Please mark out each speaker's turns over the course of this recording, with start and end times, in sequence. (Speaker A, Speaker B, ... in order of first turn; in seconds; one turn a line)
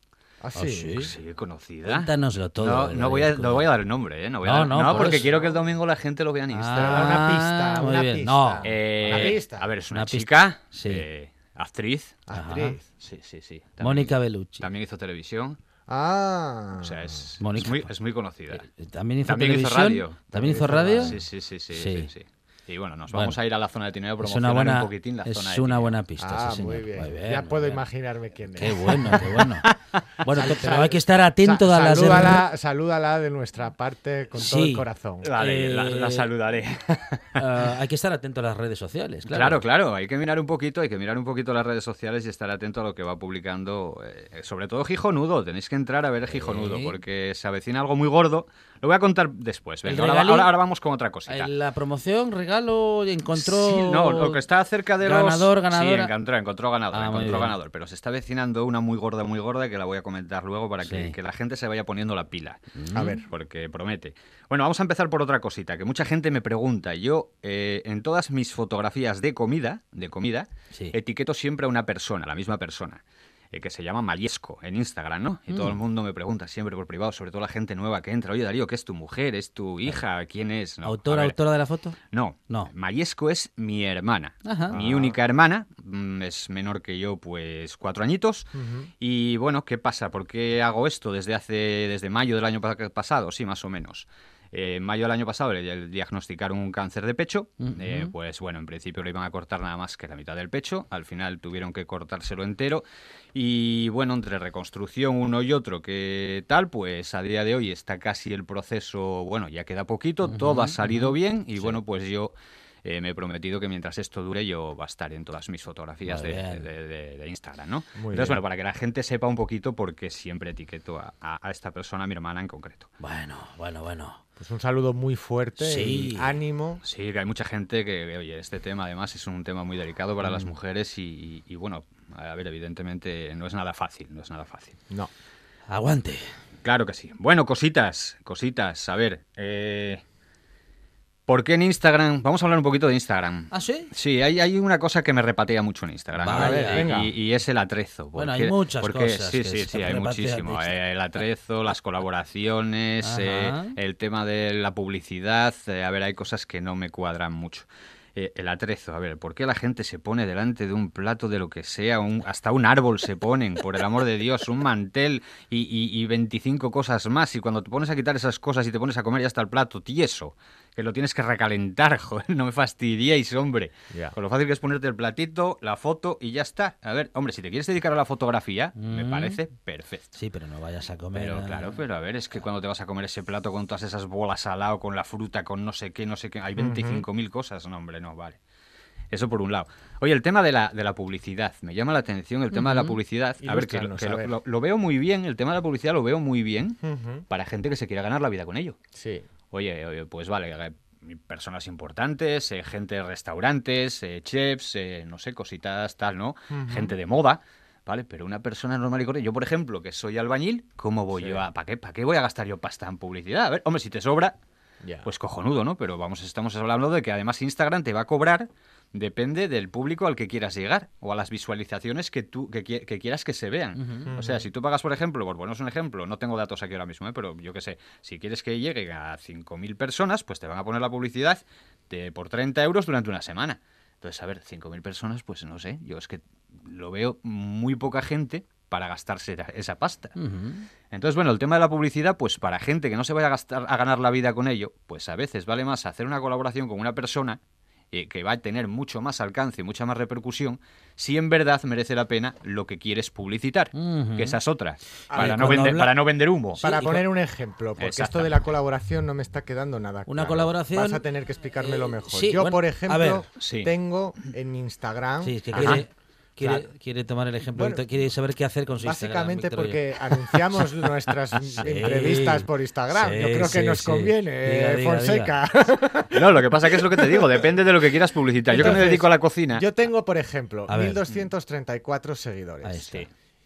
Speaker A: 0.4-1.1
Speaker B: 0.6-1.1
Speaker C: 1.0-7.2
Speaker B: 1.9-3.7
Speaker B: 4.4-5.3
Speaker A: 4.9-5.5
Speaker B: 6.5-9.4
Speaker A: 6.7-9.7
Speaker C: 8.6-12.2
Speaker B: 9.9-11.0
Speaker A: 12.3-12.8
Speaker B: 12.3-12.8
Speaker C: 13.0-15.6
Speaker B: 13.8-14.7
Speaker A: 15.9-17.1
Speaker C: 16.8-18.6
Speaker B: 17.4-17.9
Speaker B: 18.5-21.2
Speaker C: 19.2-20.3
Speaker A: 20.3-21.2
Speaker C: 20.9-25.9
Speaker B: 21.7-22.1
Speaker B: 23.1-23.4
Speaker B: 24.2-27.8
Speaker A: 26.2-29.5
Speaker B: 28.6-32.4
Speaker A: 30.3-35.3
Speaker B: 34.4-34.8
Speaker C: 35.2-37.5
Speaker B: 35.4-36.3
Speaker B: 37.4-39.6
Speaker C: 39.3-51.5
Speaker B: 46.3-47.0
Speaker B: 49.8-50.5
Speaker B: 51.3-54.4
Speaker C: 53.4-62.6
Speaker B: 55.0-56.1
Speaker B: 56.9-57.5
Speaker B: 60.8-61.1
Speaker B: 62.8-63.2
Speaker A: 62.9-63.2
Speaker C: 63.2-73.0
Speaker C: 73.5-81.3
Speaker B: 75.5-75.8
Speaker B: 80.8-82.0
Speaker C: 82.0-122.9
Speaker B: 84.5-84.8
Speaker A: 84.7-85.2
Speaker A: 88.5-88.9
Speaker B: 97.6-98.1
Speaker B: 110.3-111.8
Speaker B: 116.0-116.7
Speaker A: 118.0-118.4
Speaker B: 123.0-124.2
Speaker A: 124.4-126.8
Speaker B: 125.6-126.3
Speaker C: 126.8-134.8
Speaker B: 130.2-130.5
Speaker B: 135.7-136.3
Speaker C: 136.6-140.0
Speaker C: 141.3-180.1
Speaker B: 143.5-143.9
Speaker B: 146.2-147.0
Speaker A: 146.3-147.1
Speaker B: 148.2-150.8
Speaker B: 153.0-153.8
Speaker B: 178.8-179.4
Speaker B: 180.1-181.8
Speaker C: 181.1-188.4
Speaker A: 186.6-187.0
Speaker C: 189.1-196.8
Speaker B: 192.5-192.9
Speaker A: 193.4-194.3
Speaker A: 196.8-197.2
Speaker C: 197.3-198.8
Speaker A: 198.9-199.2
Speaker C: 199.5-214.3
Speaker A: 206.5-206.9
Speaker A: 214.8-215.1
Speaker C: 215.0-240.1
Speaker B: 223.8-224.1
Speaker A: 224.1-224.4
Speaker B: 240.2-240.7
Speaker C: 240.9-247.4
Speaker C: 247.9-257.0
Speaker B: 253.7-254.4
Speaker B: 255.1-255.9
Speaker A: 255.1-255.8
Speaker A: 256.6-265.8
Speaker C: 257.8-258.3
Speaker B: 260.1-261.0
Speaker B: 261.6-263.2
Speaker C: 263.4-263.7
Speaker B: 265.2-270.6
Speaker C: 265.6-265.8
Speaker A: 266.4-266.6
Speaker A: 267.5-267.8
Speaker A: 268.8-277.5
Speaker B: 271.5-275.3
Speaker C: 276.1-279.6
Speaker A: 278.5-283.0
Speaker B: 278.6-278.9
Speaker B: 280.7-281.0
Speaker B: 282.6-283.1